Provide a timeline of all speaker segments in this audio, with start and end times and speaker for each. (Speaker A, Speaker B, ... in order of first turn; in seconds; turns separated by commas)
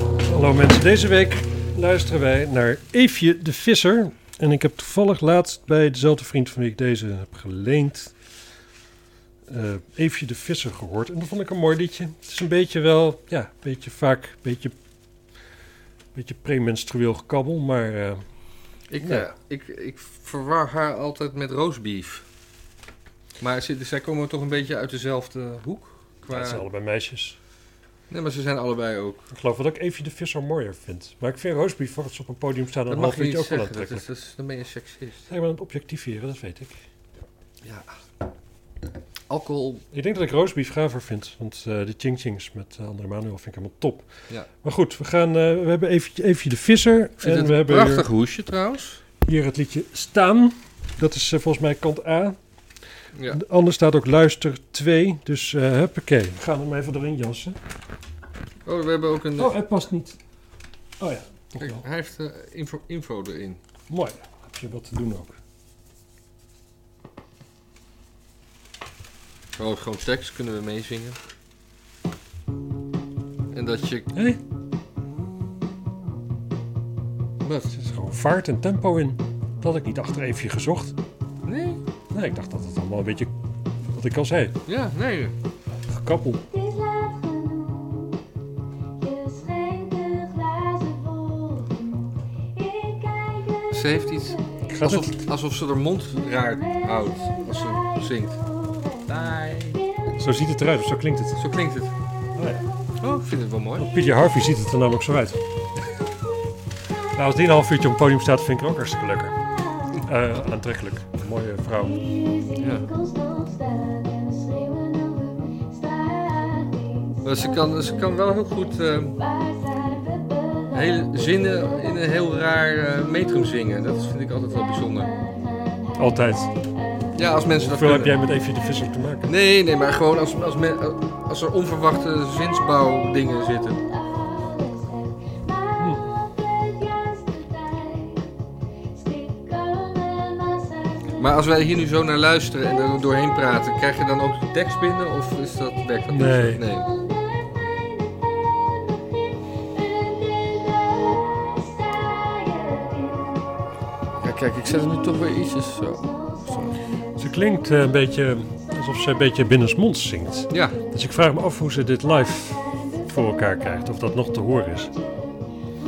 Speaker A: 0.2-8.1, Speaker A: 9.5-14.8, Speaker A: 16.1-18.2, Speaker B: 18.9-22.3, Speaker A: 19.0-19.3, Speaker B: 23.4-26.6, Speaker A: 26.3-27.4, Speaker B: 28.1-29.2, Speaker A: 29.3-34.1, Speaker B: 32.9-35.3, Speaker A: 35.3-36.8, Speaker B: 37.6-38.0, Speaker B: 39.3-39.8, Speaker A: 39.9-44.1, Speaker A: 44.6-48.1, Speaker B: 47.2-49.0, Speaker A: 49.2-52.4, Speaker B: 53.1-53.4, Speaker A: 53.3-57.6, Speaker B: 58.6-59.5, Speaker A: 59.4-60.2, Speaker A: 61.0-61.8, Speaker B: 61.6-63.6, Speaker A: 63.9-65.4, Speaker B: 69.6-71.2, Speaker B: 73.5-74.1, Speaker A: 74.1-74.4, Speaker B: 77.4-77.8, Speaker A: 77.8-81.0, Speaker B: 81.5-81.8, Speaker A: 82.1-83.3, Speaker A: 83.9-84.6, Speaker B: 84.7-85.3, Speaker A: 85.9-86.5, Speaker C: 86.7-88.1, Speaker C: 89.0-91.9, Speaker C: 92.6-93.0, Speaker B: 93.7-98.4, Speaker A: 94.7-95.2, Speaker B: 99.1-99.8, Speaker A: 100.2-101.4, Speaker B: 101.4-101.9, Speaker A: 102.4-102.7, Speaker B: 103.0-103.9, Speaker A: 103.8-105.4, Speaker A: 107.1-109.4, Speaker A: 110.0-112.3, Speaker B: 112.6-112.9, Speaker C: 113.0-117.1, Speaker B: 117.2-119.2, Speaker B: 120.7-125.2, Speaker A: 126.0-126.5, Speaker B: 127.2-128.2, Speaker A: 127.5-129.3, Speaker B: 129.2-133.8, Speaker C: 134.5-134.9, Speaker A: 135.8-136.2, Speaker C: 136.6-138.2, Speaker C: 138.9-141.0, Speaker B: 141.1-146.9, Speaker A: 146.1-146.7, Speaker C: 147.6-148.4, Speaker C: 150.3-153.4, Speaker B: 154.2-156.8, Speaker A: 157.2-164.9, Speaker B: 160.5-160.8